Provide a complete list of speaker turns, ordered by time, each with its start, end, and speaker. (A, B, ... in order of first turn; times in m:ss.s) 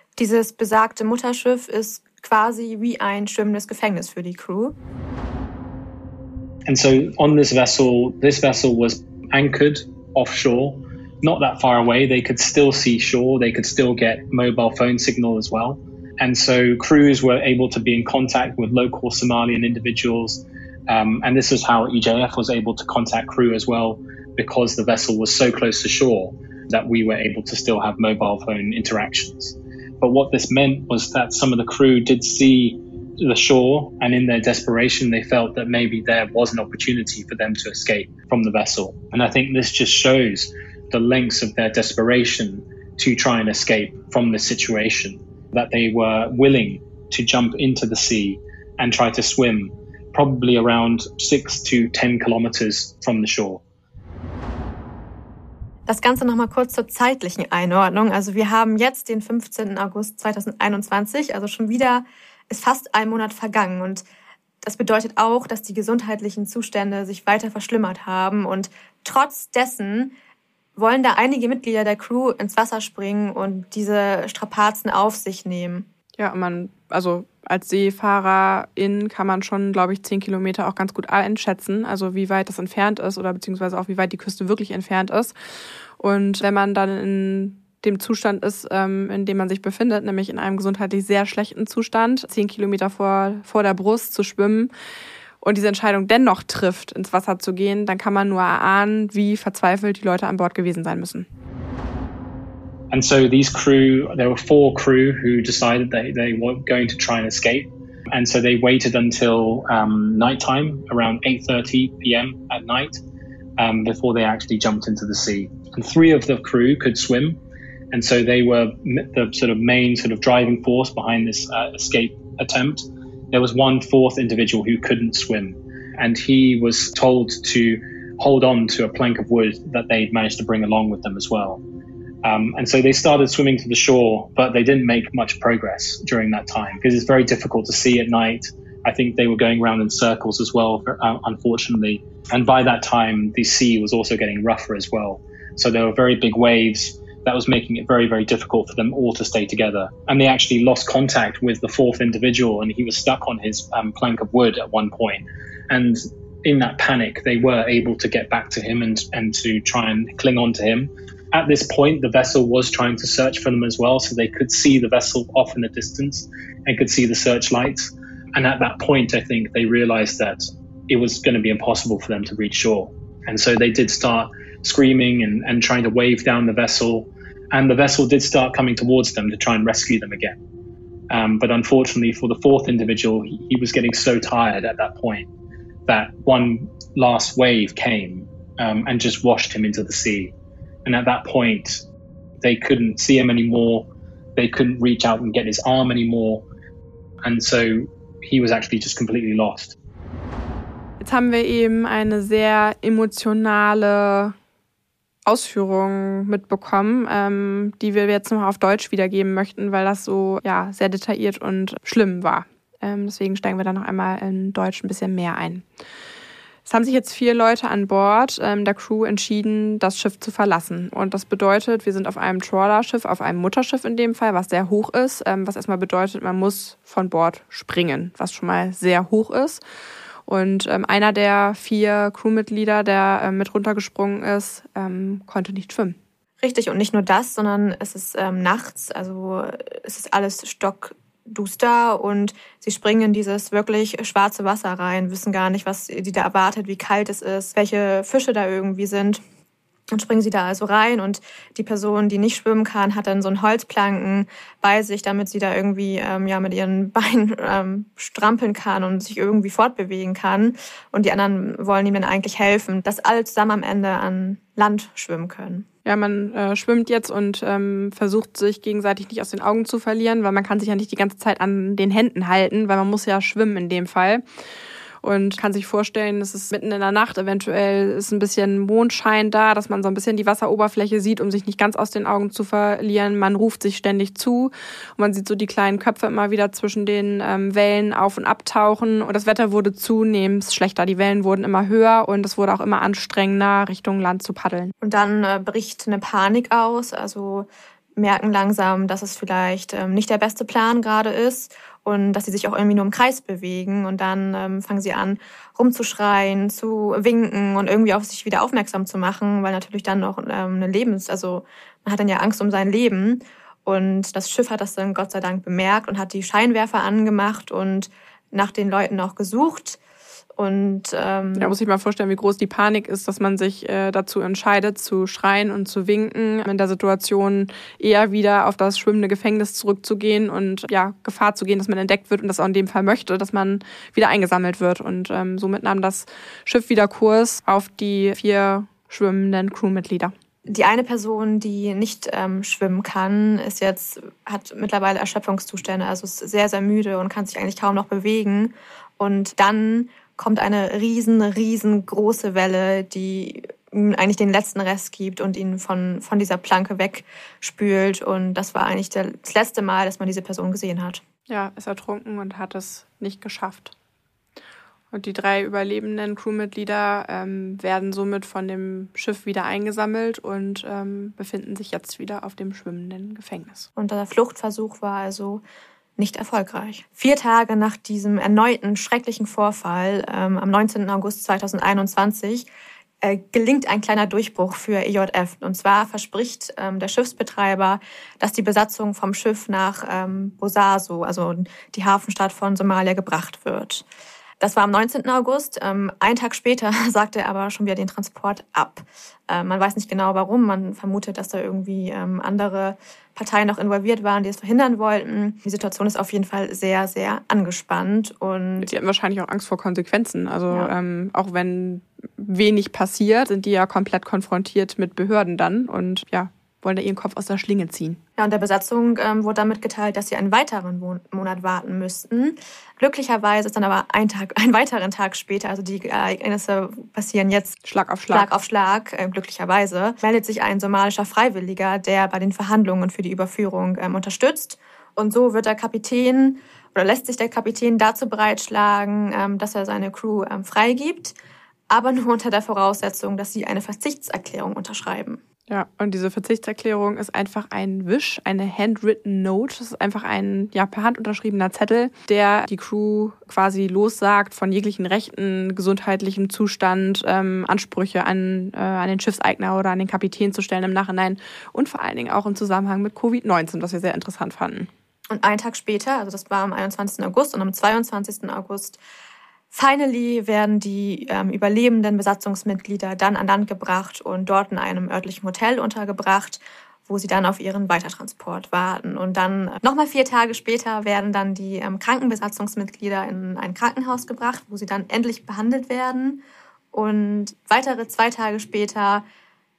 0:00.2-0:04.7 A
0:06.6-0:53.6 B
0:55.9-1:04.0 A
1:04.6-1:10.1 A
1:10.8-1:15.9 A
1:16.2-1:25.3 C
1:26.0-1:34.7 C
1:35.4-1:41.3 C
1:42.9-1:53.0 B
1:53.6-1:57.4 B
1:57.9-2:11.6 B
2:12.2-3:00.4 B
3:01.1-3:05.3 B
3:05.9-3:10.3 B
3:10.8-3:11.8 B
3:12.4-3:16.4 B
3:17.2-3:19.8 B
3:21.0-3:24.3 C
3:25.2-3:35.6 C
3:36.6-3:49.6 C
3:50.3-3:56.0 C
3:56.4-4:09.2 A
4:09.9-4:25.7 A
4:25.8-4:34.2 C
4:35.0-4:54.7 C
4:54.8-5:19.8 A
5:20.4-5:21.6 A
5:21.4-5:40.1 C
5:40.5-6:01.0 A
6:01.3-6:03.7 C
6:04.9-6:13.7 C
6:13.8-6:15.4 A
6:16.0-6:22.5 A
6:23.0-6:33.8 A
6:34.4-6:48.7 A
6:48.6-6:58.0 C
6:58.2-7:07.6 A
7:07.6-7:08.3 C
7:08.1-7:21.1 A
7:21.7-7:25.2 A
7:25.5-7:44.7 C
7:45.1-7:48.8 A
7:49.5-8:09.0 A